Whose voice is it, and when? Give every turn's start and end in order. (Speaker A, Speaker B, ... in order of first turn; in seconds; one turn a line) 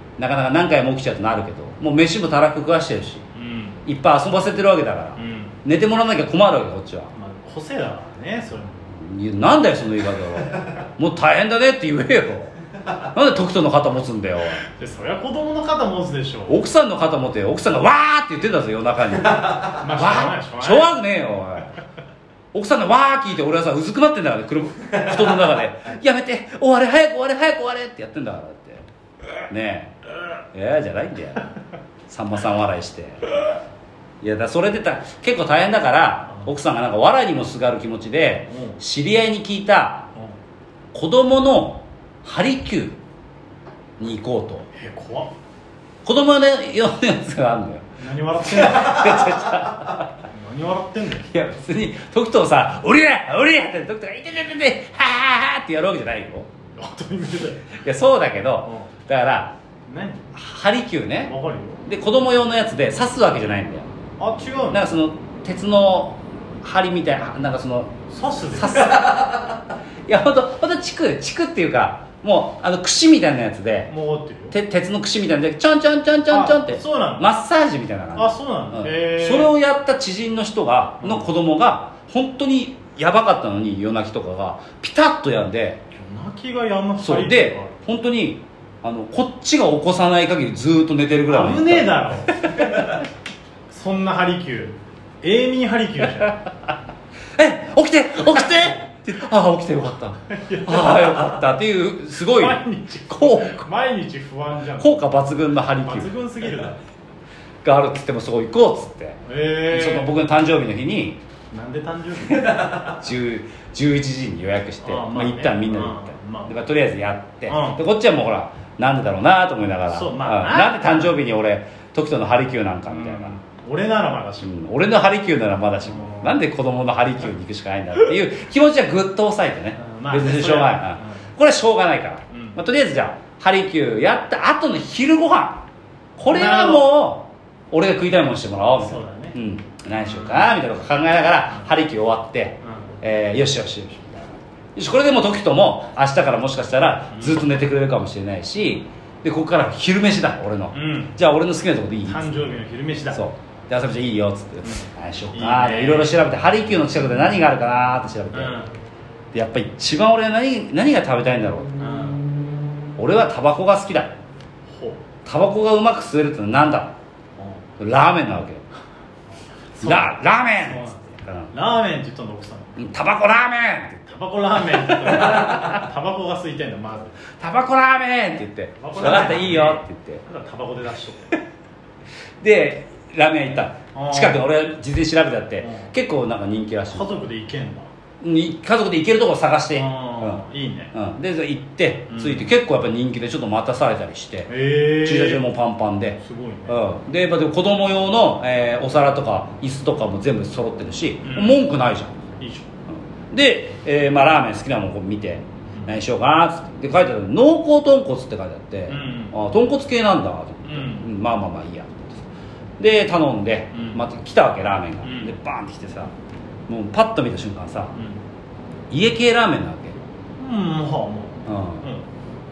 Speaker A: 0.2-3.2
Speaker B: 3.3-3.8
Speaker A: 3.9-7.1
Speaker B: 5.2-5.6
Speaker B: 7.1-8.9
Speaker A: 8.9-14.6
Speaker B: 14.7-16.6
Speaker A: 16.5-21.7
Speaker B: 19.6-20.9
Speaker A: 22.5-28.8
Speaker A: 29.5-29.9
Speaker A: 30.5-31.4
Speaker A: 32.1-33.4
Speaker A: 34.2-40.1
Speaker B: 38.5-38.8
Speaker A: 40.9-43.0
Speaker A: 44.0-44.6
Speaker B: 44.8-45.3
Speaker A: 46.0-47.8
Speaker B: 48.0-49.3
Speaker A: 48.4-50.2
Speaker B: 50.3-51.3
Speaker A: 51.2-56.5
Speaker B: 56.8-57.7
Speaker A: 57.7-59.6
Speaker B: 58.6-58.9
Speaker B: 59.9-60.2
Speaker A: 60.3-61.3
Speaker B: 61.2-61.8
Speaker A: 61.9-63.9
Speaker B: 64.2-64.8
Speaker A: 64.7-67.9
Speaker B: 68.1-68.9
Speaker A: 68.5-73.9
Speaker B: 73.9-74.5
Speaker A: 74.5-85.8
Speaker B: 76.3-77.3
Speaker B: 78.1-79.5
Speaker B: 81.0-81.3
Speaker B: 85.9-87.8
Speaker A: 87.0-93.0
Speaker B: 91.3-93.0
Speaker B: 93.7-96.4
Speaker A: 97.4-103.6
Speaker B: 100.3-101.4
Speaker B: 102.3-105.1
Speaker A: 104.8-106.1
Speaker B: 105.8-106.8
Speaker A: 107.6-111.2
Speaker B: 109.2-110.1
Speaker B: 111.5-112.8
Speaker A: 112.3-123.4
Speaker B: 114.8-116.6
Speaker B: 117.5-117.8
Speaker B: 119.9-121.1
Speaker B: 122.9-124.6
Speaker A: 124.4-135.7
Speaker B: 125.8-126.4
Speaker B: 129.8-131.3
Speaker B: 132.3-132.6
Speaker A: 136.2-152.3
Speaker B: 136.2-136.9
Speaker B: 138.8-139.4
Speaker B: 140.0-140.4
Speaker B: 142.6-142.9
Speaker B: 147.1-147.4
Speaker B: 150.7-151.2
Speaker B: 152.1-153.2
Speaker A: 153.1-158.6
Speaker B: 154.6-156.2
Speaker B: 158.3-158.7
Speaker A: 159.3-164.1
Speaker B: 161.8-162.2
Speaker B: 164.7-165.0
Speaker A: 165.2-166.9
Speaker B: 167.4-167.6
Speaker A: 167.8-168.6
Speaker B: 169.8-172.8
Speaker A: 169.8-171.5
Speaker A: 172.8-174.1
Speaker B: 174.1-177.2
Speaker A: 174.7-175.8
Speaker A: 177.4-180.2
Speaker B: 178.8-181.4
Speaker A: 182.4-187.1
Speaker B: 183.9-184.4
Speaker B: 185.6-185.9
Speaker B: 186.9-187.9
Speaker A: 188.2-202.2
Speaker B: 189.8-190.9
Speaker B: 192.1-192.5
Speaker B: 194.5-195.4
Speaker B: 196.2-196.8
Speaker B: 201.2-201.6
Speaker B: 202.4-202.7
Speaker A: 202.9-212.2
Speaker B: 208.9-209.3
Speaker B: 210.6-211.1
Speaker A: 212.8-216.1
Speaker B: 213.7-214.0
Speaker B: 215.0-215.3
Speaker A: 216.7-217.9
Speaker B: 217.9-218.2
Speaker A: 218.9-220.0
Speaker B: 220.4-222.1
Speaker A: 221.4-221.9